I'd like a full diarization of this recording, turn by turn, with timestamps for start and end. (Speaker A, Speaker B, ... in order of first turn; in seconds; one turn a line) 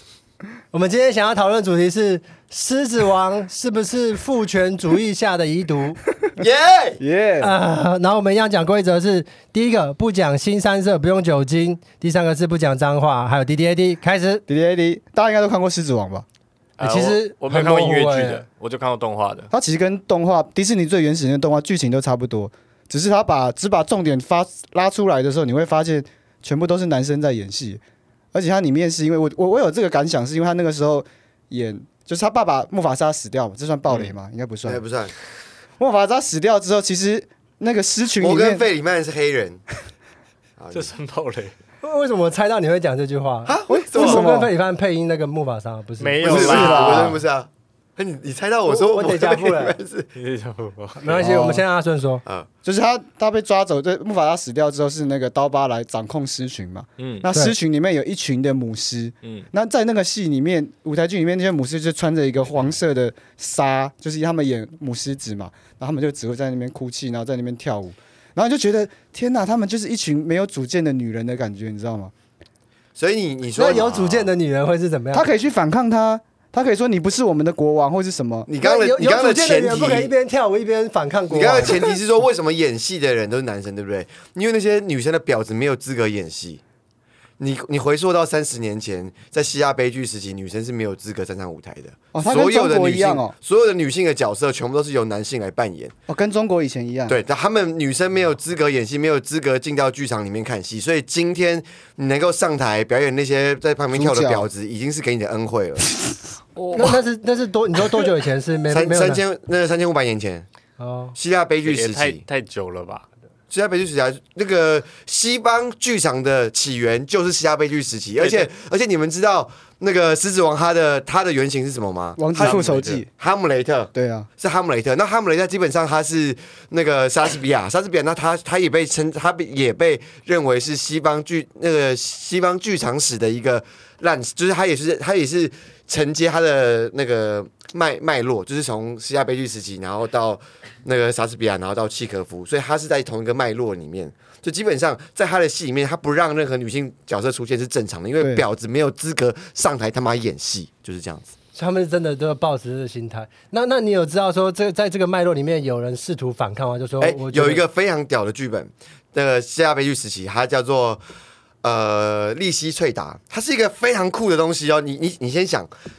Speaker A: 0.7-6.0
Speaker B: 6.4-7.0
Speaker C: 7.0-7.5
Speaker A: 7.4-14.4
Speaker C: 14.5-16.2
Speaker D: 16.8-19.5
Speaker A: 16.8-18.4
Speaker C: 19.5-27.8
Speaker C: 28.3-34.8
Speaker B: 33.9-35.1
Speaker C: 35.8-38.6
Speaker B: 38.2-39.6
Speaker B: 40.6-40.9
Speaker D: 40.7-41.5
Speaker A: 41.8-46.7
Speaker B: 43.5-44.2
Speaker C: 43.7-44.5
Speaker D: 46.0-47.2
Speaker B: 46.2-50.1
Speaker C: 46.3-47.2
Speaker A: 48.7-49.8
Speaker D: 50.1-51.2
Speaker A: 51.0-52.2
Speaker C: 51.2-51.6
Speaker C: 52.6-72.1
Speaker D: 57.0-57.3
Speaker B: 73.0-74.3
Speaker A: 73.5-75.3
Speaker C: 75.1-78.5
Speaker B: 78.5-80.1
Speaker A: 78.6-81.9
Speaker B: 81.3-86.6
Speaker B: 87.4-95.9
Speaker C: 92.1-93.3
Speaker C: 96.1-97.2
Speaker B: 97.1-105.9
Speaker C: 103.9-104.5
Speaker D: 106.5-107.0
Speaker A: 106.7-109.2
Speaker B: 108.7-110.5
Speaker A: 110.8-111.2
Speaker B: 111.2-112.2
Speaker D: 111.6-113.0
Speaker B: 113.5-151.3
Speaker D: 118.2-118.5
Speaker C: 122.2-123.1
Speaker D: 122.4-122.7
Speaker C: 123.9-124.3
Speaker C: 148.2-148.4
Speaker A: 151.5-157.6
Speaker B: 157.0-161.0
Speaker B: 161.6-165.7